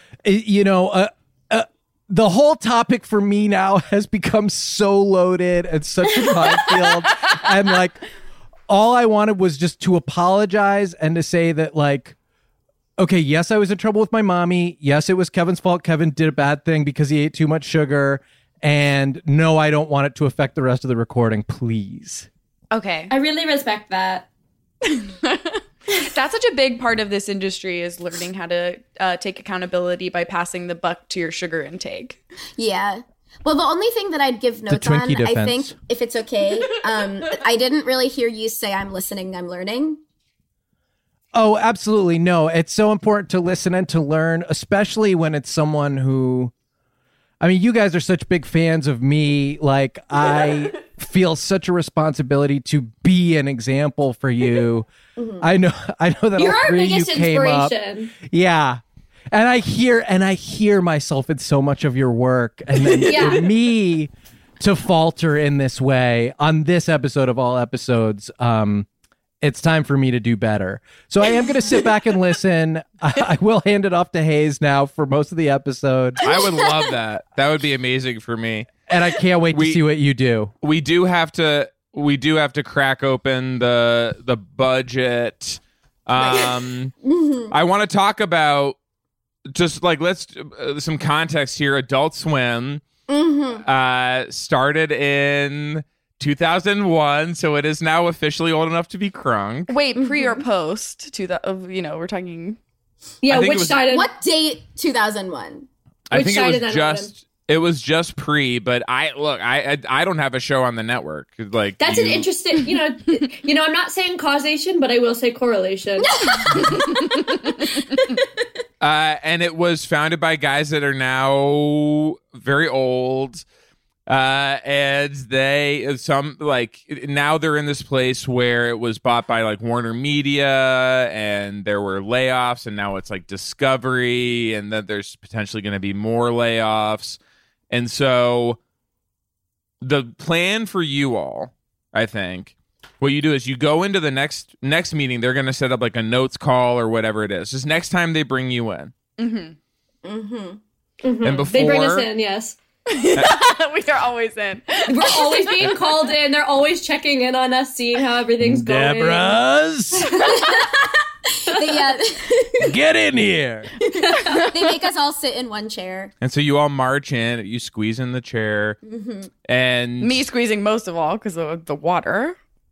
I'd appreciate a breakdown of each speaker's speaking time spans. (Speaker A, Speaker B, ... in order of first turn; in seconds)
Speaker A: 0.2-8.0, 8.7-12.2, 13.0-22.3, 34.7-35.8, 41.3-46.5, 47.4-54.9, 55.4-68.9, 69.4-76.2, 78.9-80.5, 158.4-160.2, 162.6-163.7
Speaker B: 22.7-23.1, 24.9-32.2, 63.0-63.3, 99.7-102.6, 149.2-149.6, 152.9-155.6, 164.2-164.5, 170.0-172.4
Speaker C: 23.1-24.3, 56.4-58.1, 63.0-63.5, 103.2-104.1, 106.1-107.1, 111.8-116.7, 151.0-152.6, 154.9-159.4, 161.6-161.9
Speaker D: 32.6-40.0, 55.2-55.5, 86.2-87.5, 93.1-93.6, 100.0-100.4, 103.9-105.7, 150.0-150.6, 160.3-162.7, 164.2-166.1, 168.8-169.3
Speaker E: 76.2-78.7, 79.5-79.8, 80.6-86.9, 87.5-88.8, 89.5-92.8, 93.7-99.7, 103.3-103.8, 106.1-112.3, 118.8-123.5, 124.1-137.2, 137.7-138.6, 139.8-148.9, 151.2-152.1, 153.1-153.5, 166.2-168.8, 169.5-170.3